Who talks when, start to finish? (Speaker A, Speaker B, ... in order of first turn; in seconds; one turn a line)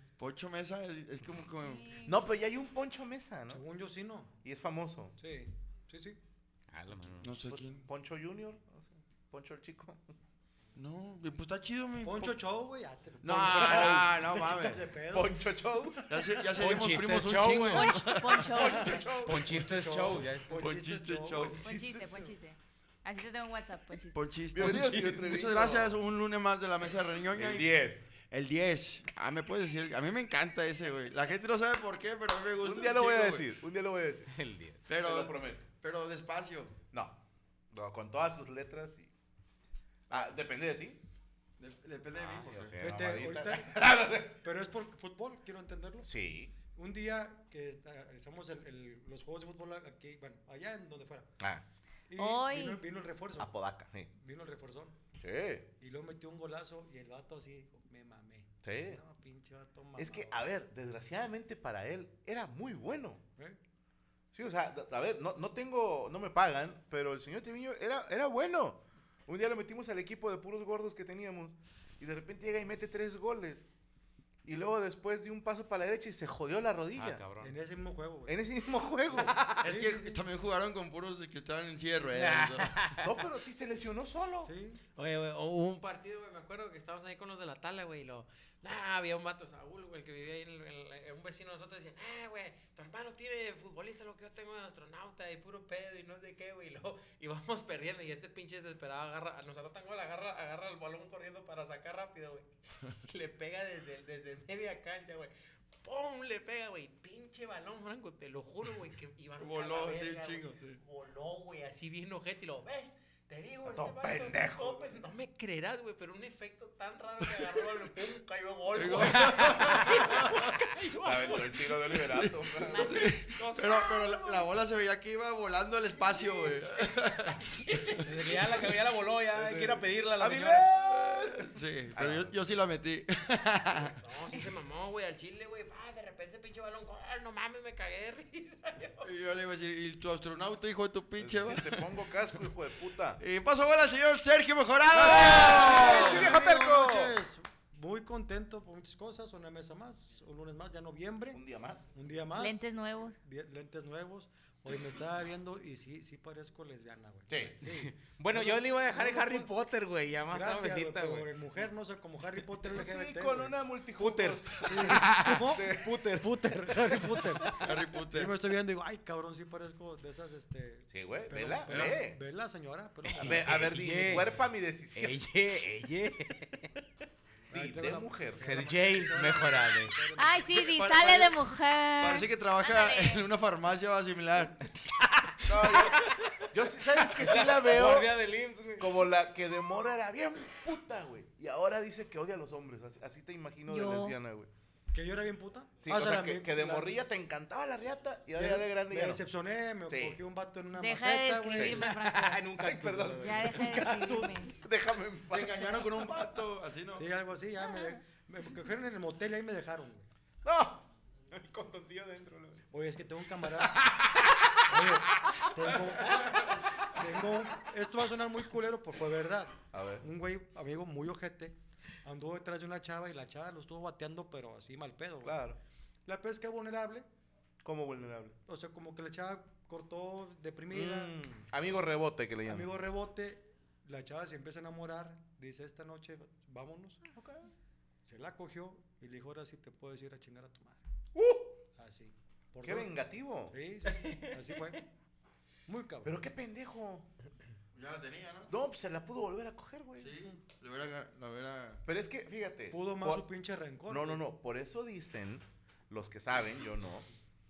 Speaker A: 0.2-1.9
Speaker B: 1.6-2.1
Speaker C: 2.0-3.6
Speaker D: 3.5-4.3
Speaker C: 4.4-5.2
Speaker D: 5.2-6.2
Speaker E: 6.7-7.3
Speaker A: 7.2-7.9
Speaker C: 7.4-10.2
Speaker A: 10.8-12.4
Speaker D: 12.0-16.5
Speaker A: 13.2-14.9
Speaker C: 13.4-14.1
Speaker C: 15.1-16.0
Speaker A: 16.1-19.0
Speaker E: 16.6-18.2
Speaker B: 17.7-19.0
Speaker C: 18.5-19.6
Speaker E: 19.2-20.7
Speaker D: 19.3-21.6
Speaker A: 20.5-21.7
Speaker C: 21.4-22.3
Speaker B: 21.6-24.3
Speaker A: 24.1-33.5
Speaker C: 24.5-26.0
Speaker C: 27.4-28.1
Speaker C: 32.6-34.4
Speaker E: 34.3-34.9
Speaker A: 34.9-36.7
Speaker C: 35.0-35.7
Speaker C: 36.9-37.2
Speaker C: 37.7-39.1
Speaker C: 40.1-41.0
Speaker A: 41.6-42.8
Speaker E: 42.2-43.3
Speaker D: 42.8-43.8
Speaker C: 42.9-44.4
Speaker D: 44.4-46.1
Speaker C: 46.0-46.5
Speaker D: 46.7-51.3
Speaker C: 51.4-51.6
Speaker D: 52.1-53.5
Speaker B: 52.2-52.8
Speaker C: 53.4-54.1
Speaker D: 54.1-55.0
Speaker C: 55.2-55.7
Speaker D: 55.8-60.5
Speaker C: 58.6-59.0
Speaker C: 60.0-63.2
Speaker C: 64.3-73.7
Speaker C: 74.5-77.2
Speaker E: 77.0-77.6
Speaker D: 77.4-78.4
Speaker C: 78.3-79.4
Speaker E: 79.3-79.6
Speaker A: 79.5-82.8
Speaker D: 79.6-80.2
Speaker E: 82.1-83.1
Speaker C: 83.0-84.5
Speaker D: 84.4-84.8
Speaker F: 85.0-102.5
Speaker F: 103.0-105.3
Speaker F: 105.8-124.5
Speaker A: 109.4-110.8
Speaker C: 113.7-115.0
Speaker A: 118.7-120.5
Speaker C: 121.0-123.1
Speaker A: 122.6-128.1
Speaker B: 122.7-123.1
Speaker F: 127.4-128.7
Speaker E: 128.1-130.7
Speaker C: 129.3-132.4
Speaker A: 131.1-134.0
Speaker F: 134.0-139.1
Speaker A: 139.0-142.4
Speaker C: 141.2-143.2
Speaker A: 143.2-146.3
Speaker C: 144.9-147.2
Speaker D: 145.2-151.4
Speaker C: 151.3-151.9
Speaker D: 151.9-159.5
Speaker B: 152.3-153.2
Speaker C: 157.3-157.6
Speaker E: 157.7-161.4
Speaker D: 160.3-163.6
Speaker C: 162.7-166.0
Speaker E: 164.0-167.6
Speaker D: 164.6-167.6
Speaker A: 167.6-168.4
Speaker D: 168.1-173.5
Speaker C: 170.9-172.2
Speaker E: 173.1-174.3
Speaker C: 173.2-175.3
Speaker E: 174.9-176.7
Speaker D: 177.5-180.4
Speaker C: 177.5-178.8
Speaker E: 178.4-180.0
Speaker B: 180.2-183.2
Speaker A: 180.5-181.4
Speaker A: 182.0-184.6
Speaker E: 184.8-186.5
Speaker C: 185.5-188.2
Speaker E: 187.0-188.9
Speaker C: 188.8-194.5
Speaker B: 193.7-194.2
Speaker D: 194.9-196.9
Speaker C: 195.8-199.2
Speaker D: 198.3-201.9
Speaker C: 199.9-200.2
Speaker B: 200.8-202.5
Speaker C: 201.6-201.9
Speaker E: 201.8-204.2
Speaker C: 202.6-204.0
Speaker B: 203.2-204.6
Speaker C: 204.5-206.3
Speaker A: 205.3-207.1
Speaker D: 206.9-210.1
Speaker C: 210.4-210.8
Speaker E: 211.3-212.6
Speaker D: 212.7-213.9
Speaker E: 213.8-214.6
Speaker D: 214.7-225.4
Speaker E: 215.3-216.3
Speaker C: 219.7-220.1
Speaker C: 225.2-225.6
Speaker D: 226.1-227.1
Speaker C: 227.6-228.4
Speaker D: 228.5-231.2
Speaker C: 230.7-232.8
Speaker D: 232.5-237.0
Speaker C: 237.1-237.5
Speaker D: 238.1-240.8
Speaker C: 241.2-241.6
Speaker D: 241.8-243.0
Speaker C: 242.6-243.6
Speaker D: 243.5-244.8
Speaker D: 245.7-246.2
Speaker C: 246.1-247.1
Speaker A: 247.7-248.5
Speaker C: 248.5-250.1
Speaker A: 250.0-251.8
Speaker C: 251.8-253.3
Speaker D: 252.7-254.2
Speaker C: 253.9-257.1